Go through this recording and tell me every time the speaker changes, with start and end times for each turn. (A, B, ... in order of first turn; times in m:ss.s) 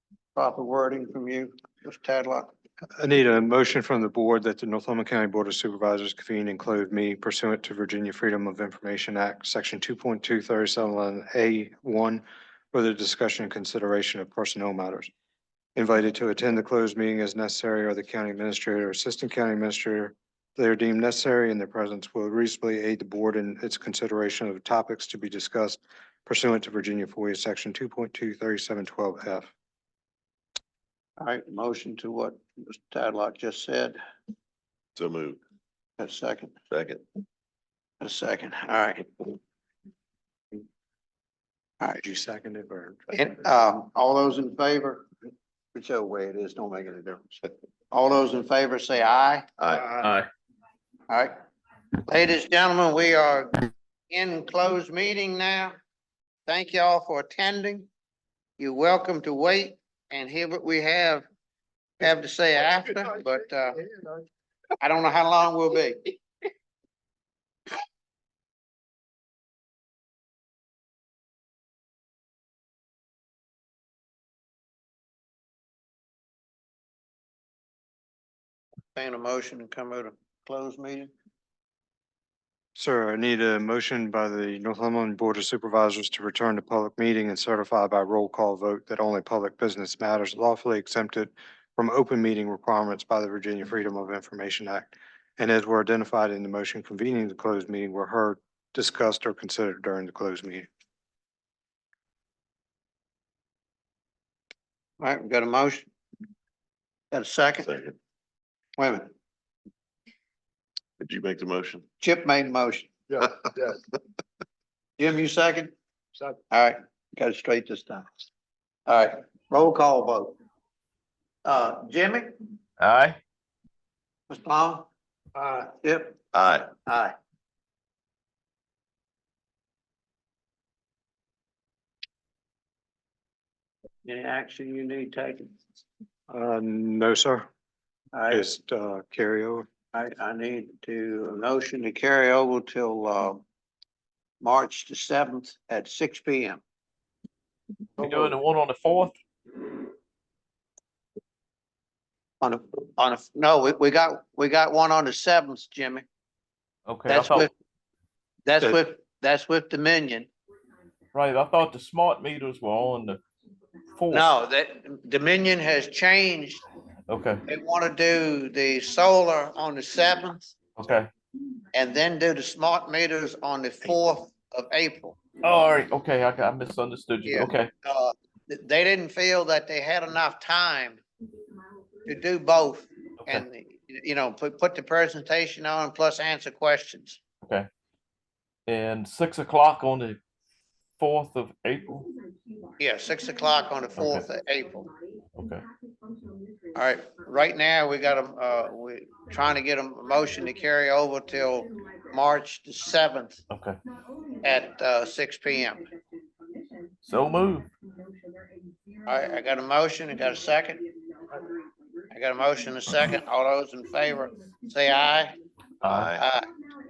0:00.3-0:02.5 A
0:03.0-0:15.1 B
0:15.8-0:29.5 B
0:31.2-0:34.0 A
0:35.0-0:35.4 C
0:36.0-0:36.5 A
0:36.7-0:37.0 C
0:38.0-0:39.4 A
0:42.0-0:43.1 B
0:43.1-0:45.1 A
0:45.7-0:50.1 A
0:50.0-0:50.3 D
0:51.1-0:51.3 A
0:52.0-0:55.8 A
0:56.5-0:57.9 A
0:58.6-1:01.2 A
1:02.0-1:03.8 A
1:04.8-1:06.1 A
1:18.9-1:21.1 A
1:22.8-1:40.7 B
1:45.0-1:45.9 A
1:47.1-1:47.7 A
1:47.6-1:47.9 C
1:48.8-1:49.1 A
1:51.0-1:51.8 C
1:52.0-1:52.9 A
1:55.0-1:55.7 A
1:56.5-1:58.1 A
1:58.9-2:00.3 A
2:01.4-2:02.3 A
2:02.8-2:03.2 D
2:04.3-2:06.2 A
2:06.3-2:06.7 C
2:06.8-2:07.1 A
2:14.0-2:15.6 A
2:16.3-2:17.5 B
2:18.1-2:18.5 A
2:18.3-2:19.6 B
2:19.9-2:23.4 A
2:24.4-2:26.6 A
2:28.0-2:29.1 D
2:32.4-2:36.0 A
2:36.9-2:37.5 D
2:37.1-2:37.5 A
2:38.4-2:40.3 A
2:41.1-2:43.2 D
2:43.9-2:44.3 D
2:44.1-2:46.6 A
2:47.1-2:47.4 D
2:47.5-2:50.5 A
2:50.8-2:51.1 D
2:51.7-2:55.2 A
2:55.4-2:57.7 D
2:57.2-3:01.0 A
3:02.0-3:07.2 A
3:07.4-3:07.7 D
3:08.7-3:10.2 D
3:11.0-3:12.1 D
3:12.8-3:14.9 A
3:14.0-3:14.2 D
3:15.3-3:15.7 D
3:16.7-3:23.4 A
3:23.5-3:23.8 D
3:24.4-3:25.9 A
3:27.0-3:27.7 D
3:29.1-3:30.8 A
3:32.1-3:35.4 A
3:35.8-3:36.2 D
3:35.8-3:36.2 C
3:36.2-3:36.5 A